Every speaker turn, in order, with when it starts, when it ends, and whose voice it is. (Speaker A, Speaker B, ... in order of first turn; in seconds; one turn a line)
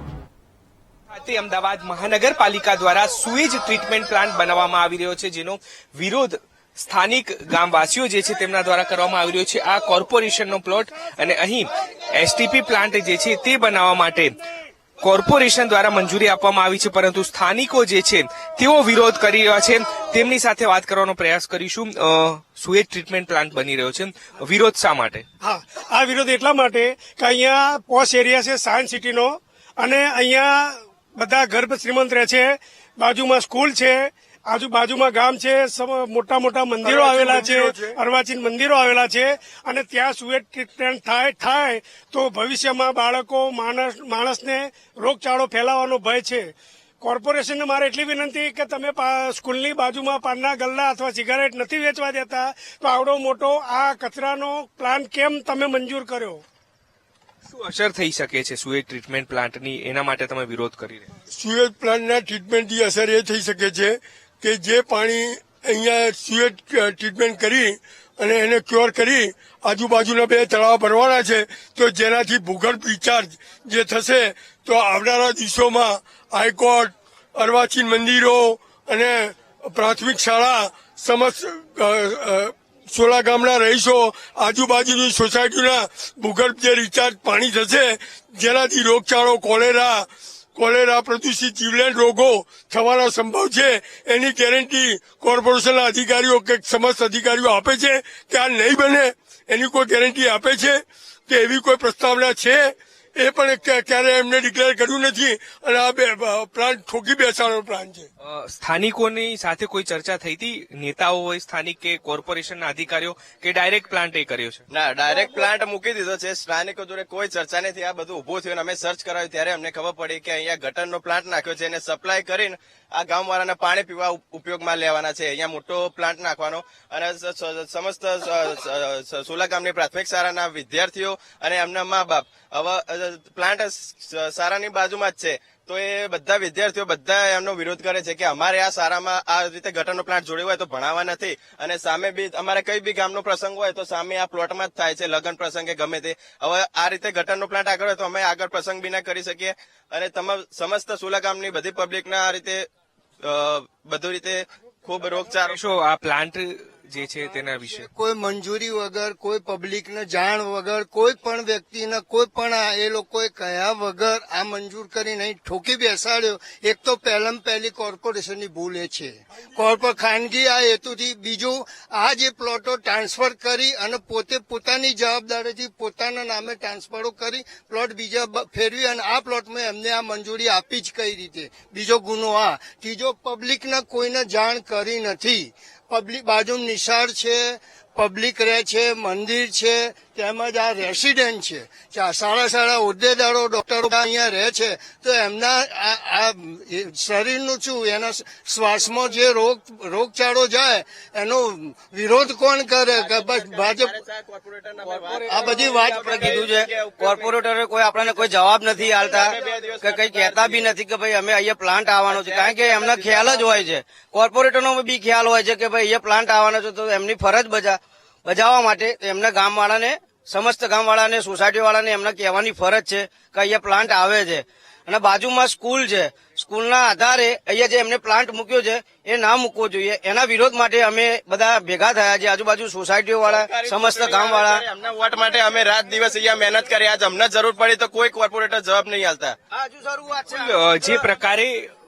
Speaker A: 1.1-14.4
Speaker A: 15.0-25.2
Speaker B: 25.4-56.4
Speaker C: 36.8-38.0
Speaker A: 57.5-61.1
Speaker C: 61.3-108.1
Speaker A: 108.2-114.6
Speaker D: 114.7-152.7
Speaker D: 153.2-155.6
Speaker A: 155.4-157.9
Speaker E: 157.7-204.0
Speaker D: 203.0-210.8
Speaker F: 205.1-205.5
Speaker E: 205.3-206.4
Speaker F: 206.1-234.6
Speaker D: 212.0-213.7
Speaker D: 233.2-239.4
Speaker F: 239.6-240.8
Speaker A: 240.3-241.7